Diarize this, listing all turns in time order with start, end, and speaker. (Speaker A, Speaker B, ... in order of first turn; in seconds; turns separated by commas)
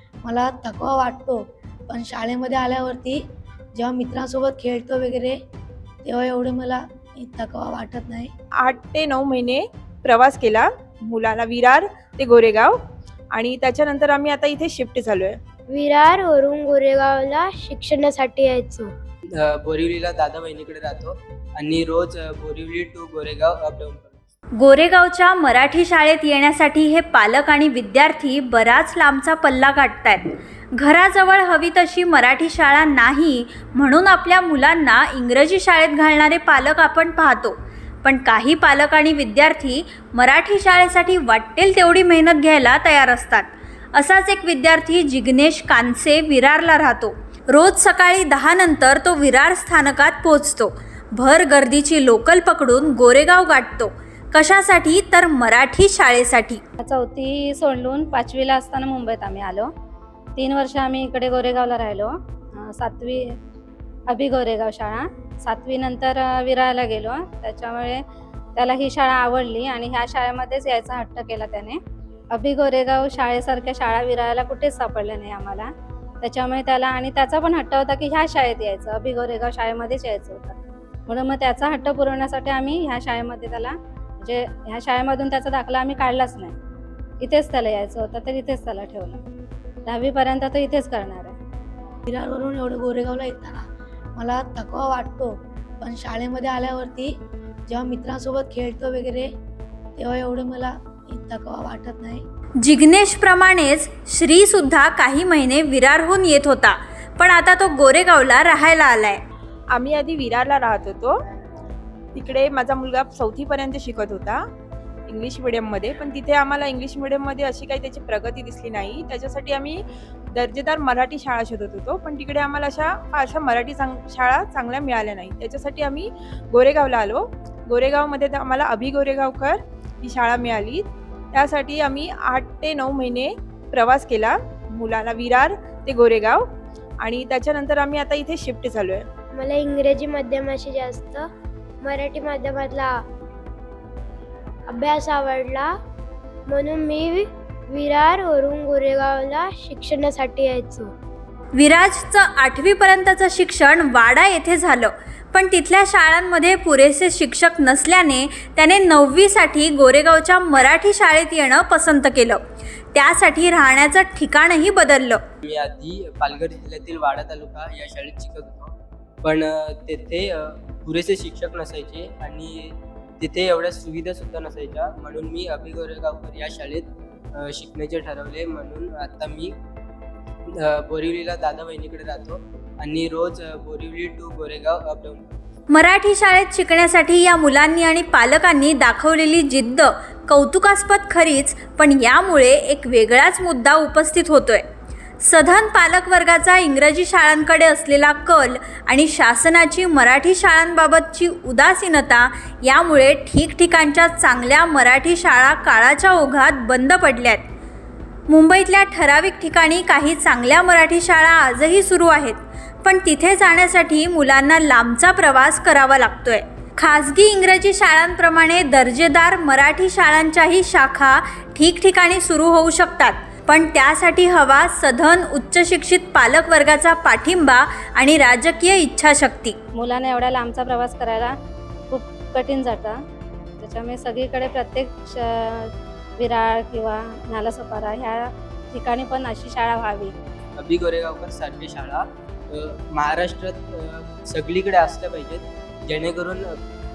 Speaker A: 0.2-3.2, Speaker A: 3.7-5.4, Speaker A: 6.0-8.3, Speaker B: 8.6-12.7, Speaker B: 13.4-15.3, Speaker C: 15.7-18.9, Speaker D: 19.4-24.2, Speaker E: 24.6-30.3, Speaker E: 30.8-56.6, Speaker F: 56.8-59.7, Speaker F: 60.4-63.2, Speaker F: 64.1-68.0, Speaker F: 68.6-71.8, Speaker F: 72.3-75.7, Speaker F: 76.2-86.5, Speaker F: 87.2-89.2, Speaker F: 89.8-91.3, Speaker A: 92.1-93.6, Speaker A: 94.2-97.1, Speaker A: 97.7-99.3, Speaker A: 100.0-102.2, Speaker E: 102.6-109.2, Speaker B: 110.1-111.0, Speaker B: 112.2-114.3, Speaker B: 115.2-119.8, Speaker B: 120.4-126.0, Speaker B: 126.6-127.1, Speaker B: 127.8-130.8, Speaker B: 131.4-133.2, Speaker B: 133.8-134.3, Speaker B: 134.8-136.3, Speaker B: 137.1-139.0, Speaker C: 139.3-141.3, Speaker C: 141.8-143.0, Speaker C: 144.7-145.7, Speaker C: 146.5-150.9, Speaker E: 151.6-162.4, Speaker E: 162.9-165.2, Speaker D: 165.4-179.6, Speaker D: 180.5-185.4, Speaker E: 185.7-194.6, Speaker E: 195.2-207.4, Speaker E: 208.3-229.6, Speaker F: 229.7-231.3, Speaker F: 231.9-233.0, Speaker F: 233.6-240.1, Speaker D: 240.6-246.5